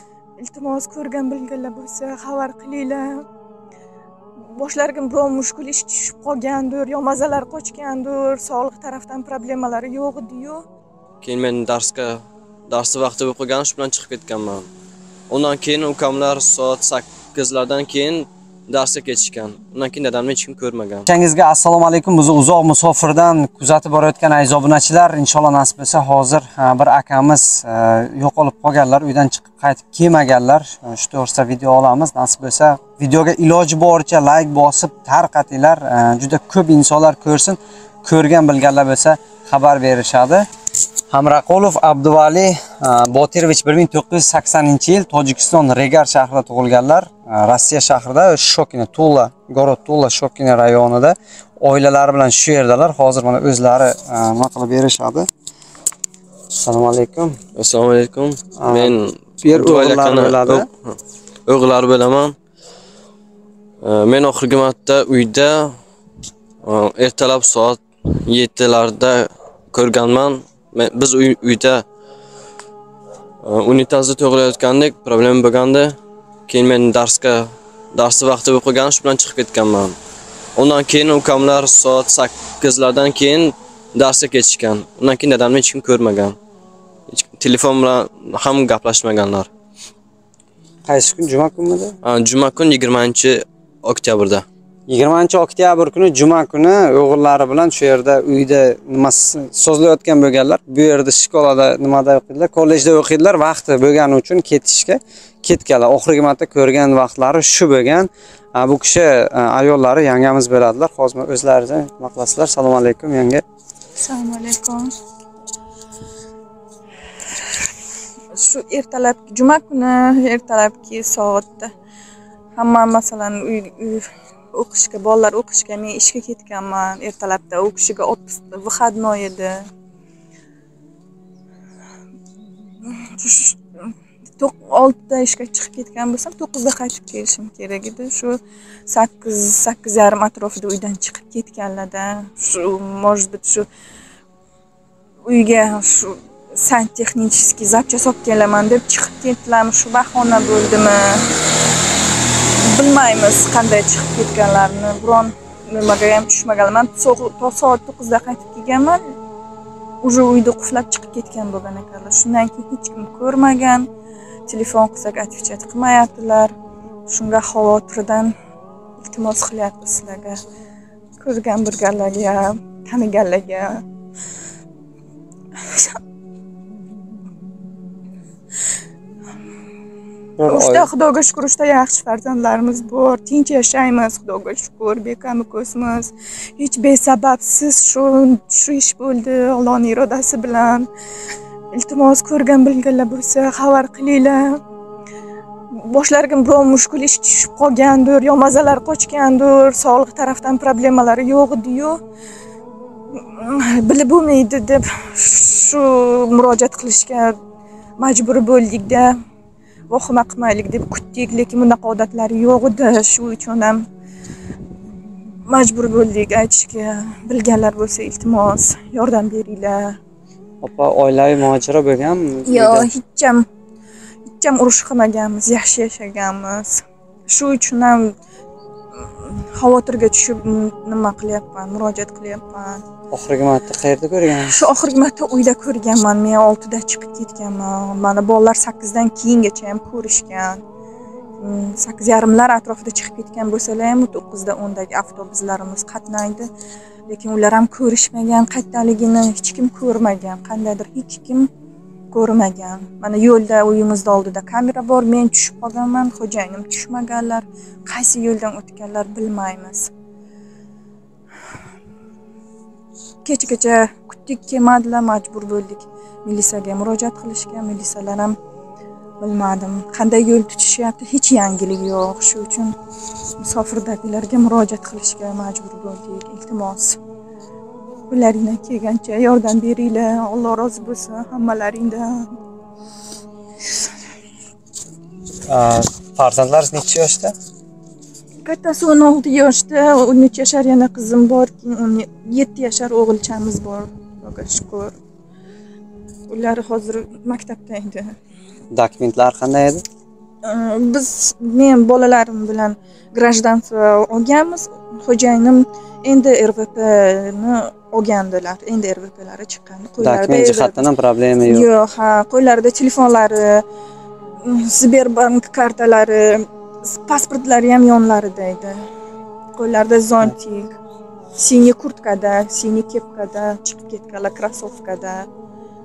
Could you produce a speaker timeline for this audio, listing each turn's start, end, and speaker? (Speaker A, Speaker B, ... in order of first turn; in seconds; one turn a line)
Speaker A: 0.4-3.2
Speaker A: 4.5-10.6
Speaker B: 11.2-14.7
Speaker B: 15.3-21.1
Speaker C: 21.1-40.5
Speaker C: 41.1-55.3
Speaker C: 56.6-57.4
Speaker B: 57.6-60.9
Speaker C: 58.6-60.7
Speaker B: 61.5-62.4
Speaker B: 63.8-65.7
Speaker B: 66.6-71.8
Speaker B: 73.4-76.0
Speaker B: 76.5-80.0
Speaker B: 80.6-86.4
Speaker B: 87.1-89.5
Speaker C: 90.9-92.0
Speaker B: 92.0-94.5
Speaker C: 94.9-113.4
Speaker A: 114.0-114.9
Speaker A: 118.3-121.7
Speaker A: 122.6-129.7
Speaker A: 132.8-143.7
Speaker A: 145.3-151.3
Speaker A: 152.7-159.0
Speaker A: 160.0-163.9
Speaker A: 164.5-166.5
Speaker A: 167.1-168.3
Speaker A: 169.0-170.4
Speaker A: 171.2-173.8
Speaker A: 175.6-176.0
Speaker C: 180.4-180.9
Speaker A: 180.5-190.9
Speaker A: 191.7-194.6
Speaker A: 195.8-202.0
Speaker A: 203.2-207.4
Speaker A: 208.0-209.1
Speaker A: 209.9-213.8
Speaker A: 215.5-220.0
Speaker C: 220.6-222.9
Speaker A: 222.5-223.4
Speaker A: 224.4-228.1
Speaker A: 229.0-232.8
Speaker C: 233.1-234.7
Speaker A: 234.5-240.6
Speaker A: 241.4-246.5
Speaker A: 247.1-251.5
Speaker A: 252.1-259.9
Speaker A: 263.2-268.4
Speaker A: 269.2-272.8
Speaker A: 273.4-277.0
Speaker A: 278.1-282.4
Speaker C: 285.5-287.3
Speaker A: 288.4-295.0
Speaker A: 296.3-298.1
Speaker C: 298.7-299.8
Speaker A: 300.4-310.9
Speaker C: 310.0-311.7
Speaker A: 311.5-313.6
Speaker A: 314.4-318.9
Speaker A: 319.6-320.8
Speaker A: 321.4-325.3